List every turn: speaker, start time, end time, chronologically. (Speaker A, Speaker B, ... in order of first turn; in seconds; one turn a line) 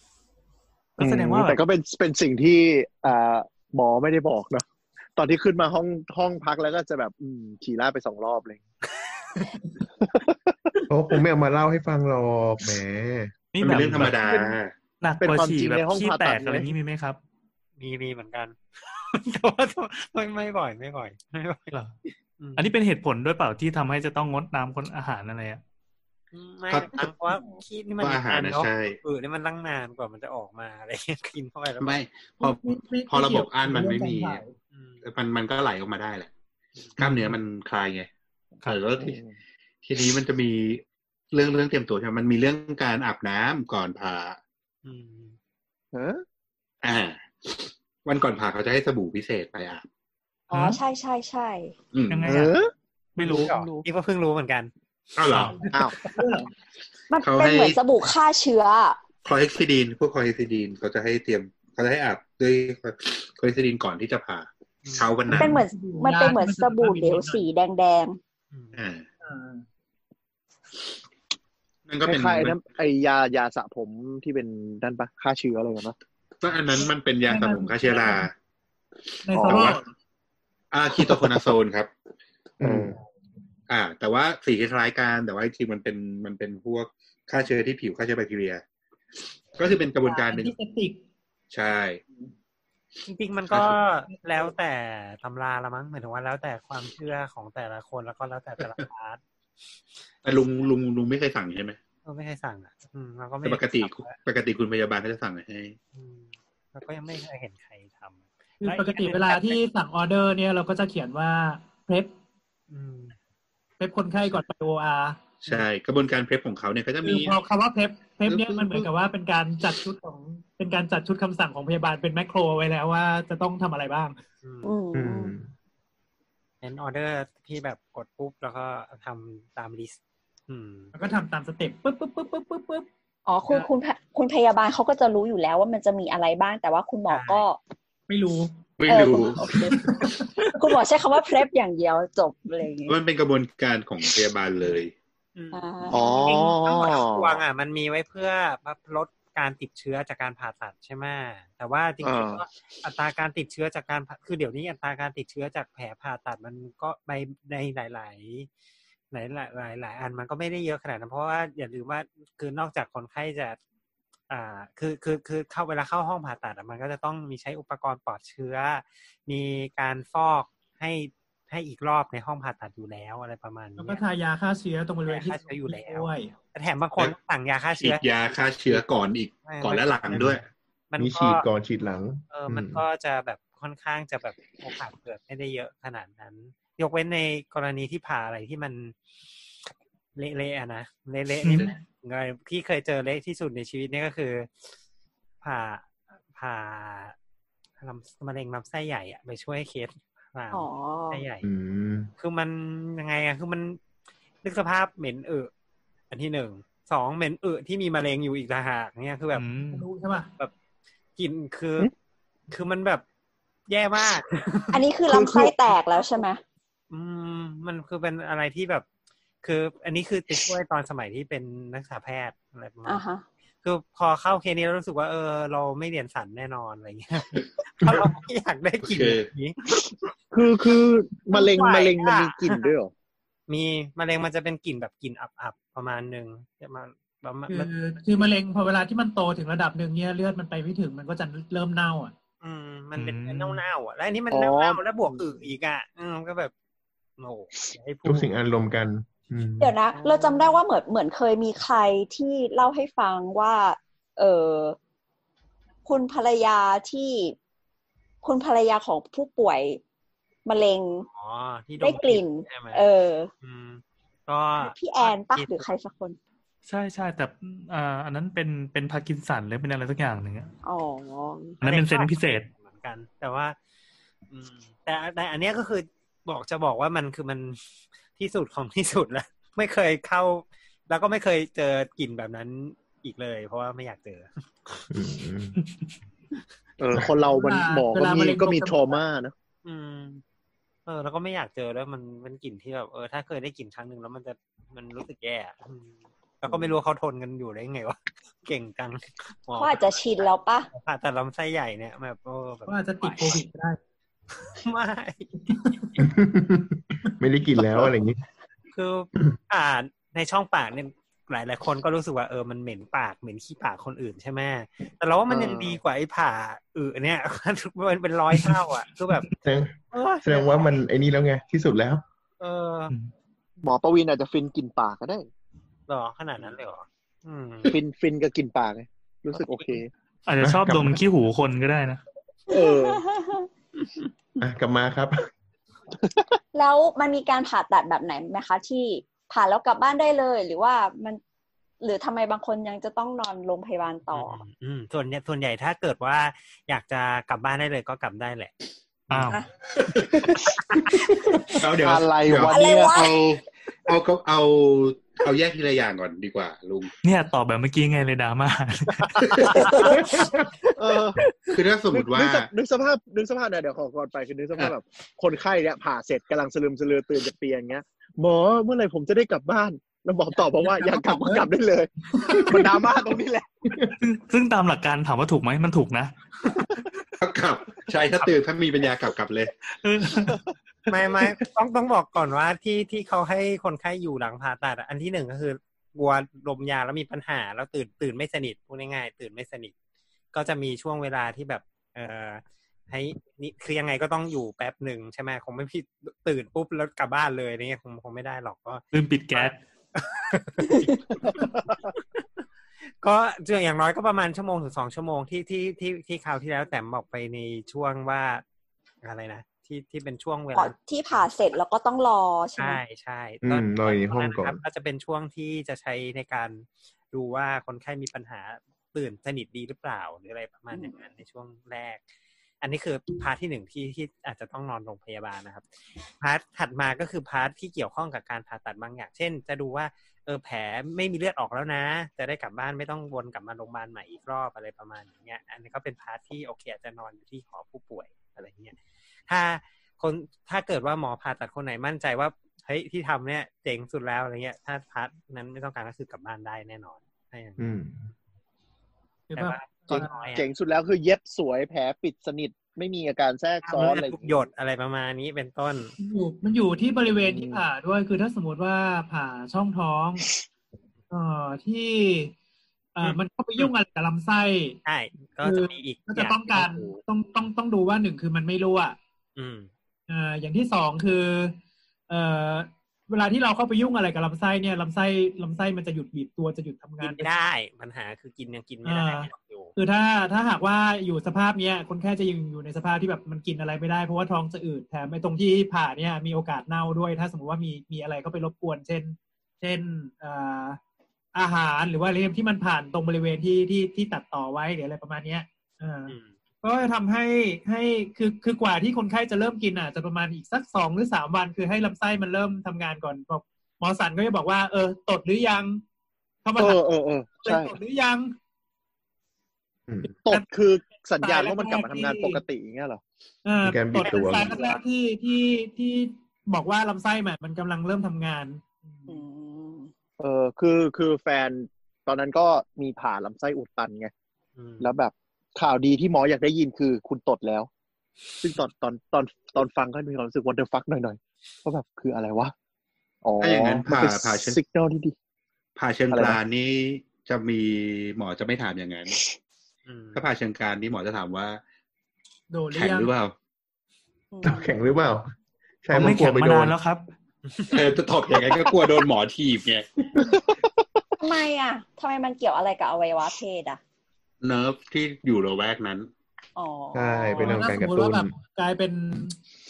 Speaker A: 1.0-1.6
Speaker B: 1.0-8.6
Speaker B: 10.0-10.7
Speaker C: 10.9-13.3
Speaker A: 13.5-14.3
Speaker D: 13.6-14.8
Speaker A: 15.0-17.2
Speaker B: 15.2-16.7
Speaker E: 17.8-21.7
Speaker E: 22.4-22.7
Speaker A: 22.6-25.6
Speaker E: 26.3-32.0
Speaker D: 26.7-27.0
Speaker F: 27.0-27.6
Speaker D: 28.0-29.0
Speaker D: 31.8-34.4
Speaker F: 32.4-34.5
Speaker E: 34.7-35.0
Speaker D: 35.0-36.3
Speaker D: 37.0-38.1
Speaker A: 37.0-37.3
Speaker D: 38.6-39.2
Speaker B: 39.0-39.3
Speaker D: 39.8-44.4
Speaker E: 44.8-45.4
Speaker B: 45.9-46.2
Speaker D: 46.8-49.9
Speaker A: 50.5-50.8
Speaker G: 50.5-51.7
Speaker D: 51.9-52.4
Speaker A: 52.1-52.6
Speaker B: 52.2-52.7
Speaker A: 53.2-53.6
Speaker E: 53.2-54.7
Speaker B: 53.2-53.8
Speaker D: 55.2-55.5
Speaker A: 55.3-55.5
Speaker E: 55.6-56.2
Speaker F: 56.0-56.5
Speaker G: 57.1-59.0
Speaker D: 57.2-57.8
Speaker D: 59.2-65.6
Speaker E: 64.8-65.1
Speaker F: 65.3-67.4
Speaker G: 65.3-68.2
Speaker E: 68.5-68.8
Speaker D: 68.7-69.0
Speaker F: 69.2-69.6
Speaker D: 71.9-72.6
Speaker B: 72.0-75.9
Speaker D: 76.4-78.3
Speaker F: 76.8-78.3
Speaker F: 79.2-79.9
Speaker B: 79.3-79.8
Speaker D: 79.4-79.8
Speaker D: 80.7-81.9
Speaker B: 81.0-81.5
Speaker C: 82.6-83.0
Speaker B: 82.6-82.9
Speaker D: 83.7-88.6
Speaker D: 89.5-90.5
Speaker F: 89.7-91.0
Speaker D: 91.5-92.0
Speaker E: 93.0-99.2
Speaker D: 93.5-93.8
Speaker F: 94.1-94.5
Speaker D: 100.2-101.8
Speaker E: 102.0-104.2
Speaker D: 103.4-105.8
Speaker E: 105.9-109.6
Speaker F: 108.6-112.1
Speaker E: 112.7-113.1
Speaker F: 113.8-115.7
Speaker D: 115.4-117.4
Speaker F: 117.0-124.2
Speaker D: 118.3-118.9
Speaker E: 124.4-124.7
Speaker G: 124.6-125.3
Speaker C: 124.9-125.5
Speaker E: 126.6-130.0
Speaker E: 130.5-130.9
Speaker F: 130.9-132.8
Speaker G: 133.2-137.6
Speaker E: 137.1-137.4
Speaker F: 138.1-138.6
Speaker D: 138.8-139.6
Speaker G: 138.9-143.0
Speaker F: 139.7-140.5
Speaker D: 142.9-144.9
Speaker E: 145.3-158.5
Speaker G: 145.5-146.0
Speaker B: 145.9-147.4
Speaker B: 152.0-152.4
Speaker E: 159.1-163.6
Speaker E: 164.3-174.0
Speaker F: 173.8-176.3
Speaker E: 175.1-178.0
Speaker D: 177.8-180.4
Speaker E: 179.4-181.4
Speaker C: 181.0-182.8
Speaker E: 182.3-188.9
Speaker E: 190.2-194.5
Speaker A: 191.4-191.7
Speaker E: 195.4-197.1
Speaker E: 197.8-201.5
Speaker G: 200.5-201.2
Speaker C: 201.4-202.1
Speaker E: 202.2-203.8
Speaker E: 204.4-205.5
Speaker E: 206.1-209.4
Speaker A: 209.3-209.9
Speaker F: 209.7-210.3
Speaker E: 211.2-211.9
Speaker E: 212.5-213.0
Speaker E: 213.7-214.8
Speaker G: 214.7-216.4
Speaker B: 215.1-215.5
Speaker E: 216.9-218.8
Speaker E: 219.4-223.0
Speaker G: 222.8-223.2
Speaker E: 223.6-229.6
Speaker D: 228.8-229.3
Speaker B: 230.3-232.9
Speaker E: 231.3-232.7
Speaker E: 233.5-237.7
Speaker F: 237.5-242.1
Speaker E: 242.4-246.5
Speaker A: 242.9-243.6
Speaker B: 244.3-245.3
Speaker E: 247.2-248.3
Speaker C: 248.0-249.8
Speaker G: 249.6-254.8
Speaker E: 250.1-250.4
Speaker G: 255.8-257.3
Speaker G: 258.2-259.8
Speaker G: 260.4-261.1
Speaker E: 261.1-262.9
Speaker G: 261.8-263.3
Speaker E: 263.4-265.6
Speaker G: 264.6-266.2
Speaker A: 266.6-270.5
Speaker G: 270.6-271.6
Speaker A: 271.6-272.5
Speaker E: 271.6-273.6
Speaker E: 274.3-277.6
Speaker E: 278.2-284.8
Speaker C: 284.9-285.6
Speaker B: 286.8-289.3
Speaker F: 287.2-289.0
Speaker E: 289.6-290.2
Speaker E: 290.9-300.0
Speaker G: 299.6-300.7
Speaker E: 300.7-303.4
Speaker F: 302.7-303.8
Speaker E: 304.5-305.4
Speaker F: 305.5-305.9
Speaker C: 306.0-308.2
Speaker E: 308.7-319.3
Speaker B: 315.3-315.8
Speaker C: 319.4-322.0
Speaker E: 319.9-320.8
Speaker E: 322.4-322.9
Speaker B: 323.6-325.3
Speaker E: 325.9-327.8
Speaker B: 327.6-329.9
Speaker E: 329.3-329.8
Speaker A: 330.2-332.0
Speaker C: 330.4-331.0
Speaker B: 332.5-333.0
Speaker G: 332.5-333.5
Speaker C: 334.4-335.3
Speaker G: 336.5-341.2
Speaker G: 341.8-344.4
Speaker E: 344.1-348.5
Speaker A: 349.1-349.4
Speaker D: 349.9-350.2
Speaker G: 351.1-351.4
Speaker D: 351.6-356.9
Speaker B: 351.7-353.1
Speaker G: 352.5-353.2
Speaker A: 357.0-359.4
Speaker D: 359.2-359.6
Speaker G: 359.5-360.1
Speaker B: 360.7-361.2
Speaker D: 361.5-362.5
Speaker B: 361.9-373.7
Speaker F: 370.6-371.4
Speaker F: 372.1-372.6
Speaker A: 374.0-376.1
Speaker D: 377.2-379.5
Speaker A: 379.8-380.4
Speaker E: 380.9-389.7
Speaker E: 390.3-402.2
Speaker A: 398.9-399.6
Speaker B: 401.3-401.7
Speaker E: 403.0-408.4
Speaker E: 409.0-410.7
Speaker G: 410.5-412.8
Speaker E: 412.6-422.0
Speaker C: 413.4-414.6
Speaker E: 422.6-425.6
Speaker E: 426.2-438.8
Speaker E: 439.3-447.7
Speaker C: 447.6-448.1
Speaker F: 449.3-450.3
Speaker E: 449.3-450.4
Speaker B: 449.9-454.4
Speaker E: 453.6-455.9
Speaker F: 456.0-460.3
Speaker B: 457.1-457.6
Speaker F: 461.1-462.3
Speaker F: 462.9-464.8
Speaker E: 463.0-463.7
Speaker E: 464.8-467.0
Speaker F: 465.4-469.0
Speaker E: 469.4-469.7
Speaker F: 470.1-471.6
Speaker F: 472.1-477.3
Speaker E: 477.0-479.7
Speaker F: 478.8-490.8
Speaker F: 491.3-505.8
Speaker E: 496.1-496.3
Speaker F: 506.4-506.8
Speaker B: 506.6-507.8
Speaker F: 507.4-508.3
Speaker C: 509.9-510.2
Speaker B: 510.2-513.0
Speaker F: 511.2-512.4
Speaker F: 513.4-519.2
Speaker C: 513.6-514.5
Speaker E: 514.0-514.8
Speaker G: 519.1-519.9
Speaker B: 520.2-524.1
Speaker E: 524.5-524.9
Speaker B: 524.8-527.7
Speaker B: 528.4-532.5
Speaker B: 533.2-535.1
Speaker D: 533.4-534.6
Speaker D: 535.8-539.2
Speaker B: 536.1-536.4
Speaker E: 539.9-540.2
Speaker D: 540.1-541.6
Speaker F: 542.5-543.1
Speaker D: 542.7-543.3
Speaker G: 544.3-544.7
Speaker C: 544.4-545.3
Speaker C: 545.8-546.7
Speaker A: 545.9-547.1
Speaker E: 547.5-547.8
Speaker D: 547.7-549.9
Speaker G: 551.2-553.8
Speaker D: 554.4-556.1
Speaker G: 556.5-557.7
Speaker C: 556.9-558.3
Speaker F: 557.4-559.4